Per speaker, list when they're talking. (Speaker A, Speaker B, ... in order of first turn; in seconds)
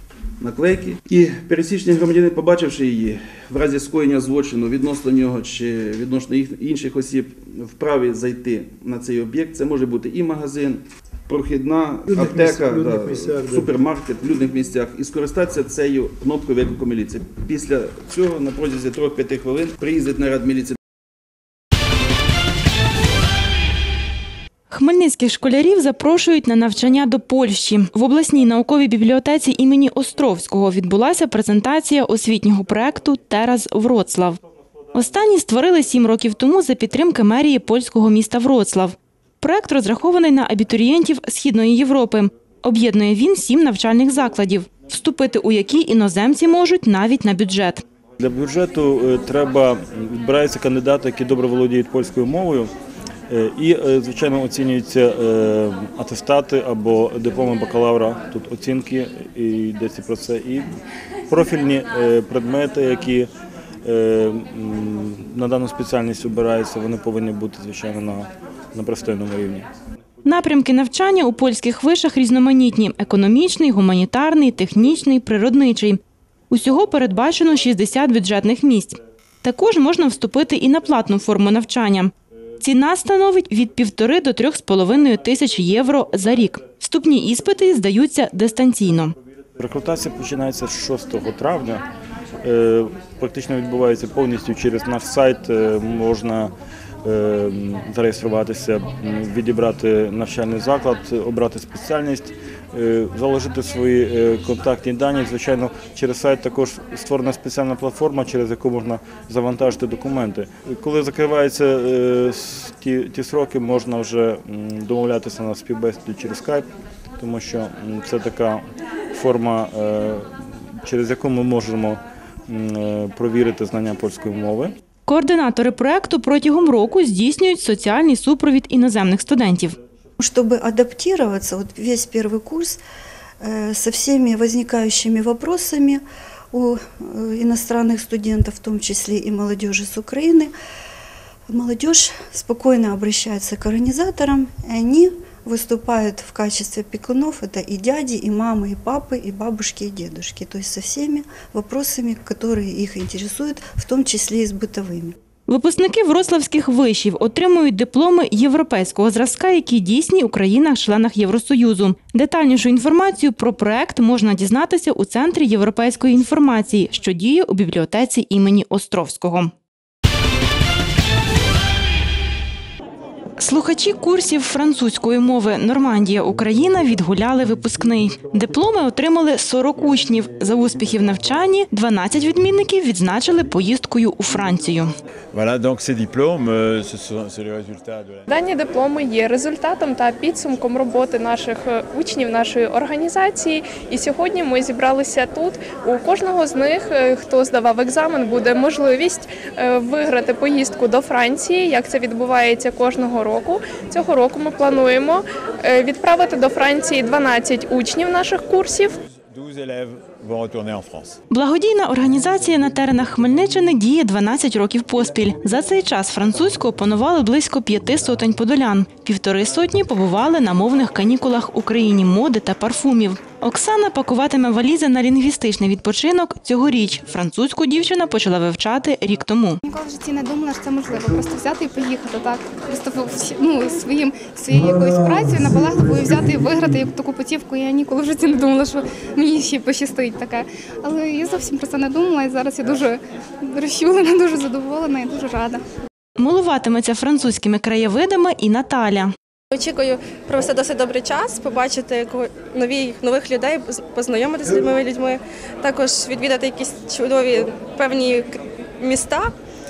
Speaker A: 0.4-20.8
Speaker B: 24.7-34.4, 34.9-47.8, 70.2-76.0, 76.5-89.2, 125.1-129.8, 155.5-169.5, 173.4-184.9, 211.3-229.6, 246.2-249.1
Speaker C: 48.2-52.7, 53.3-60.7, 61.3-63.3, 63.9-69.7, 89.6-91.8, 92.4-96.5, 97.0-116.7, 117.2-118.6, 119.1-124.7
Speaker D: 130.2-132.8, 133.4-140.5, 141.5-155.2
Speaker E: 185.3-188.3, 209.3-211.2
Speaker F: 188.3-209.0
Speaker G: 229.6-245.6
Speaker H: 249.5-259.3